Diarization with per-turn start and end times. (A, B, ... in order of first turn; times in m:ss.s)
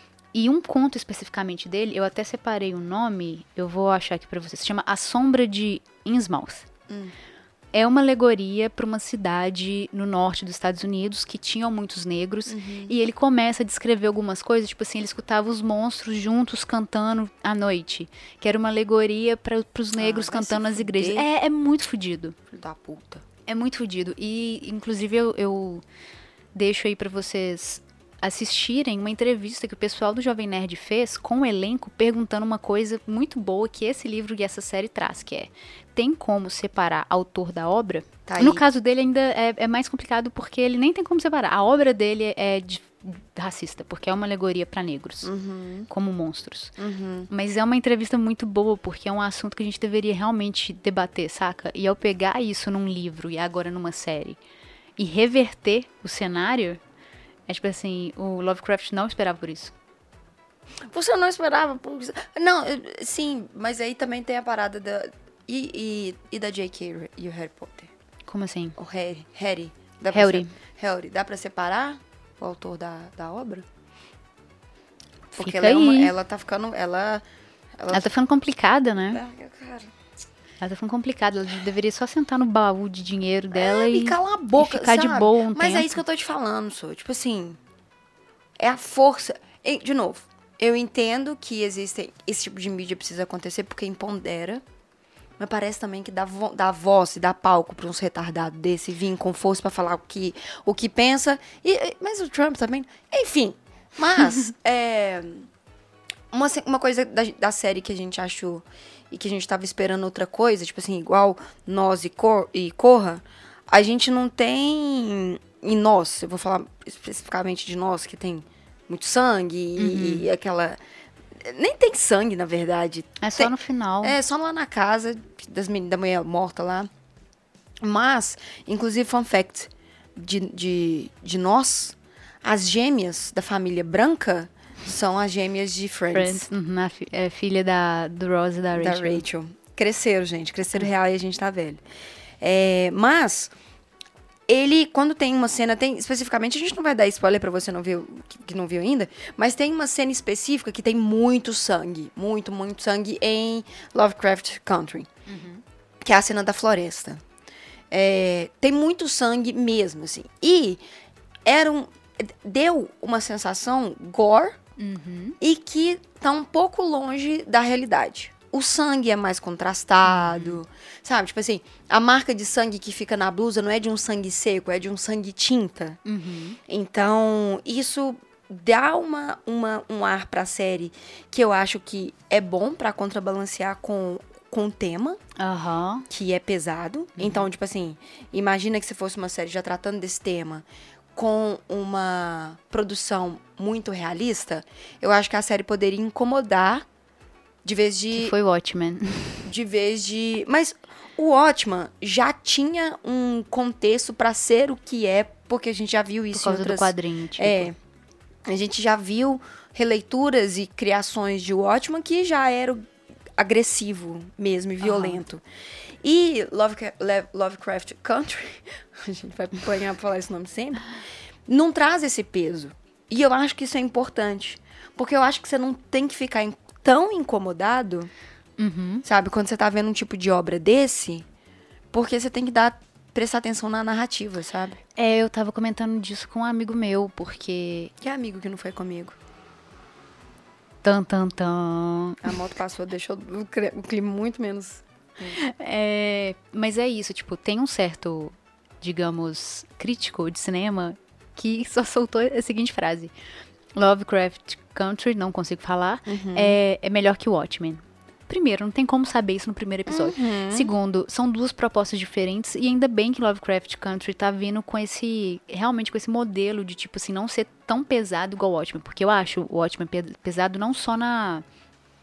0:00.3-0:06.7 A
0:06.9-0:07.1 B
0:07.7-0:22.4 A
0:12.5-0:13.0 B
0:20.0-0:21.3 B
0:22.5-0:23.2 B
0:23.5-0:25.8 A
0:26.6-0:45.3 A
0:38.3-0:38.6 B
0:45.2-0:45.9 B
0:45.9-0:46.8 A
0:46.8-0:47.3 B
0:47.3-0:54.4 A
0:55.0-0:56.8 A
0:57.5-0:59.7 A
1:00.9-1:07.9 B
1:08.3-1:08.8 A
1:08.8-1:13.7 B
1:10.1-1:10.5 A
1:15.3-1:17.2 B
1:15.4-1:16.2 A
1:17.8-1:18.1 B
1:17.9-1:19.2 A
1:19.1-1:19.9 B
1:20.6-1:26.0 A
1:23.5-1:27.6 B
1:28.6-1:34.6 B
1:35.4-1:45.5 B
1:46.3-2:00.8 B
1:59.8-2:00.3 A
2:01.4-2:06.9 B
2:03.2-2:04.2 A
2:07.8-2:16.5 B
2:16.1-2:19.2 A
2:18.8-2:21.8 B
2:22.4-2:23.5 B
2:24.5-2:35.1 B
2:35.3-2:35.6 A
2:36.0-2:37.2 B
2:37.9-2:40.8 B
2:41.4-2:44.6 B
2:44.8-2:45.4 A
2:45.4-2:56.0 B
2:50.0-2:50.6 A
2:56.0-2:56.6 A
2:56.7-3:05.2 B
3:05.4-3:06.1 A
3:06.1-3:16.9 B
3:07.2-3:07.5 A
3:17.6-3:18.3 B
3:18.1-3:19.4 A
3:19.4-3:27.8 B
3:26.3-3:27.7 A
3:28.5-3:32.8 B
3:33.4-3:35.4 B
3:34.8-3:35.2 A
3:36.0-3:40.9 B
3:41.5-3:48.1 B
3:48.6-3:49.0 A
3:49.0-3:51.3 B
3:51.9-3:54.8 B
3:55.0-3:57.9 A
3:58.0-3:59.2 B
4:00.8-4:02.4 A
4:02.2-4:05.4 B
4:05.3-4:13.1 A
4:13.8-4:31.4 A
4:16.1-4:16.6 B
4:19.9-4:20.7 B